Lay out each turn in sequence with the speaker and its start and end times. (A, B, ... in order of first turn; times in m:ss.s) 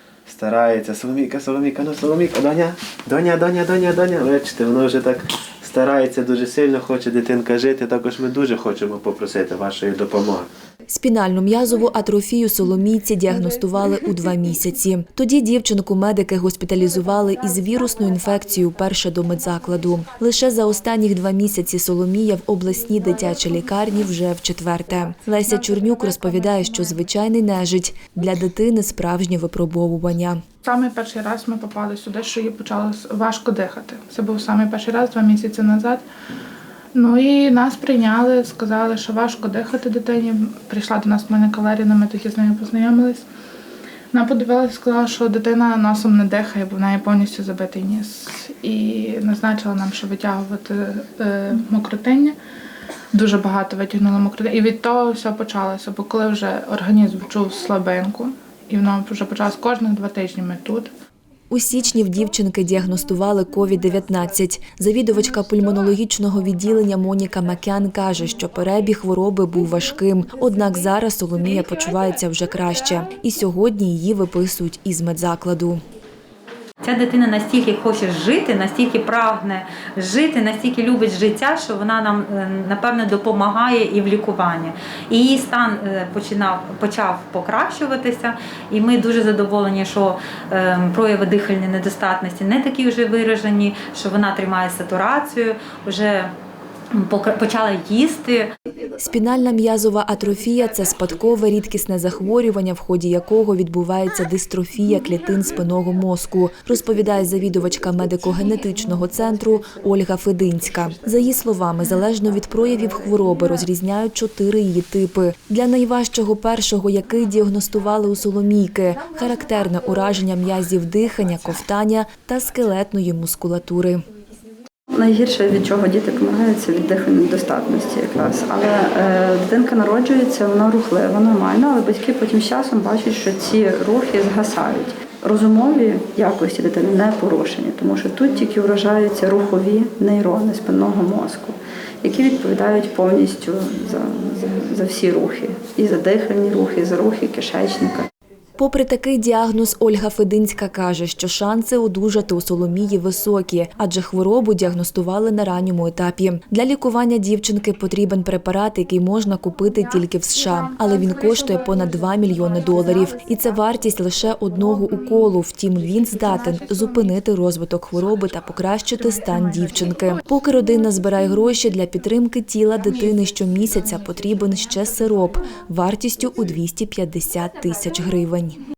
0:00.2-0:10.5 A
0:10.9-0:30.4 B
0:30.6-0:36.0 C
0:36.9-0:43.2 C
0:44.1-0:52.3 C
0:53.1-1:00.9 C
1:01.5-1:15.8 B
1:16.8-1:36.3 D
1:36.9-1:38.5 D
1:39.0-2:04.0 B
2:04.9-2:28.1 E
2:28.6-2:58.6 B